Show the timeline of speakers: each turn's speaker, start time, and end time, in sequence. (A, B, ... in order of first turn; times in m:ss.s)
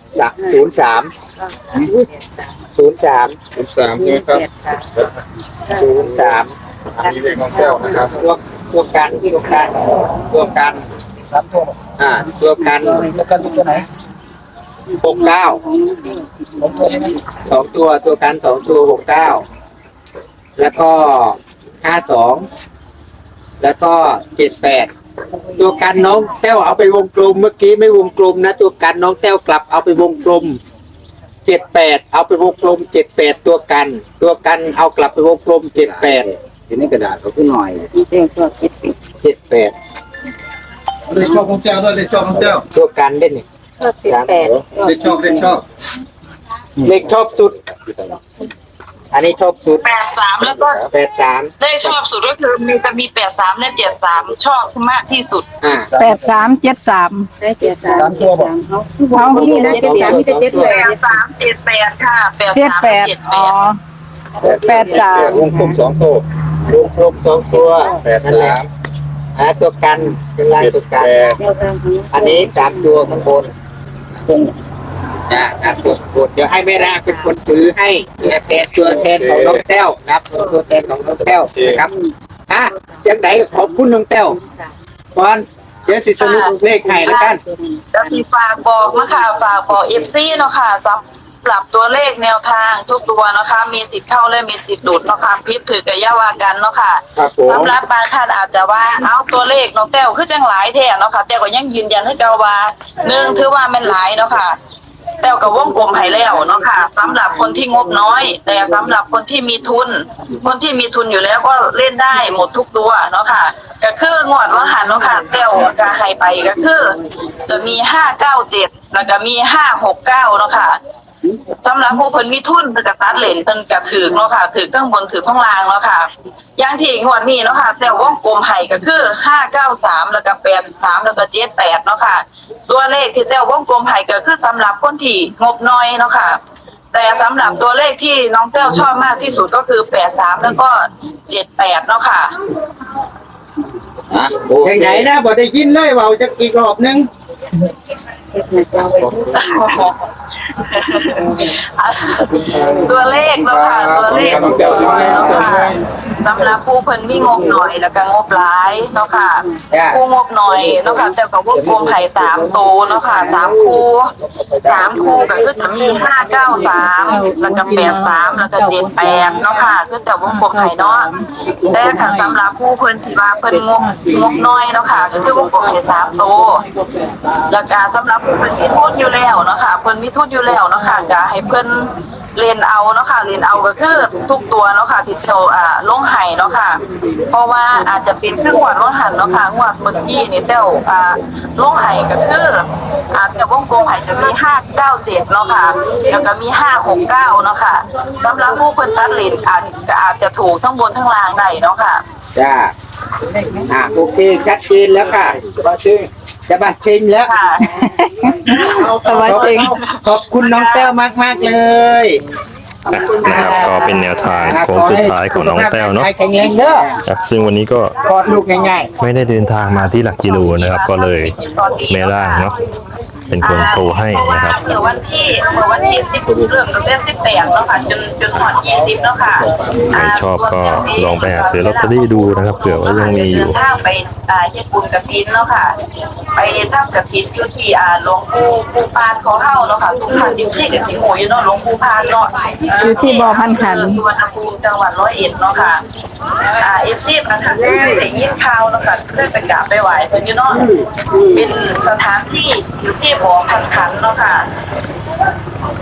0:00.1-0:01.1 A
0:00.4-0:00.6 B
0:01.4-0:02.6 B
0:02.7-0:03.4 A
0:03.5-0:04.4 C
0:03.9-0:04.9 B
0:05.7-0:05.9 B
0:05.7-0:06.5 A
0:07.0-0:08.2 C
0:07.0-0:08.1 B
0:08.1-0:10.9 A
0:09.2-0:10.5 B
0:11.4-0:11.7 D
0:12.0-0:13.1 A
0:12.6-0:13.9 B
0:13.1-0:13.8 D
0:14.9-0:17.2 B
0:15.0-0:15.6 A
0:16.7-0:17.1 D
0:17.4-0:19.4 A
0:20.6-0:22.5 A
0:23.6-0:24.9 A
0:25.6-0:30.6 A
0:31.4-0:36.3 A
0:35.8-0:37.9 D
0:37.9-0:39.0 B
0:39.2-0:39.7 A
0:41.1-0:42.6 C
0:42.7-0:43.4 A
0:43.8-0:45.6 B
0:44.0-0:44.4 A
0:44.4-0:45.6 D
0:44.8-0:45.6 C
0:46.8-0:47.6 A
0:49.1-0:49.8 A
0:49.8-0:50.9 E
0:50.8-0:51.5 A
0:51.6-0:55.4 E
0:55.6-0:55.9 A
0:55.9-0:57.3 F
0:57.4-1:01.1 B
0:57.9-0:58.3 D
0:59.1-0:59.8 F
0:59.3-1:00.8 A
1:00.5-1:03.5 E
1:02.5-1:03.8 F
1:04.4-1:05.8 B
1:04.4-1:06.2 C
1:04.5-1:05.4 F
1:06.7-1:08.6 A
1:07.5-1:08.0 B
1:08.0-1:08.7 C
1:09.4-1:11.2 A
1:10.6-1:11.4 C
1:11.4-1:13.1 B
1:12.1-1:13.5 A
1:15.3-1:21.9 A
1:16.8-1:17.3 B
1:18.8-1:19.6 C
1:21.3-1:21.8 C
1:22.5-1:24.4 A
1:22.8-1:24.8 B
1:25.1-1:27.4 A
1:26.1-1:26.5 E
1:26.8-1:28.1 B
1:27.1-1:27.3 E
1:27.9-1:44.6 E
1:37.2-1:37.8 A
1:45.2-2:00.8 E
2:01.6-2:16.4 E
2:16.9-2:22.3 E
2:24.1-2:25.0 C
2:24.6-2:27.1 A
2:28.3-2:29.5 B
2:29.3-2:44.1 E
2:31.0-2:31.4 B
2:32.3-2:32.8 B
2:33.4-2:35.6 A
2:34.1-2:35.8 C
2:34.5-2:34.8 D
2:37.3-2:37.5 B
2:39.7-2:40.0 A
2:44.6-2:56.6 E
2:57.4-3:22.0 E
3:22.3-3:22.7 A
3:23.7-3:25.4 A
3:25.5-3:25.9 D
3:26.5-3:27.3 A
3:27.2-3:27.7 E
3:27.8-3:29.7 F
3:28.5-3:30.9 E
3:28.6-3:32.2 A
3:32.9-3:36.1 G
3:33.2-3:37.0 A
3:33.2-3:33.9 E
3:33.3-3:33.8 F
3:37.0-3:38.0 G
3:38.0-3:38.9 A
3:39.0-3:41.4 G
3:40.2-3:42.5 E
3:41.9-3:42.5 G
3:43.3-3:44.8 G
3:43.4-3:55.7 E
3:49.9-3:53.5 G
3:56.4-4:05.8 E
4:02.8-4:04.0 F
4:06.6-4:10.6 E
4:11.3-4:14.4 E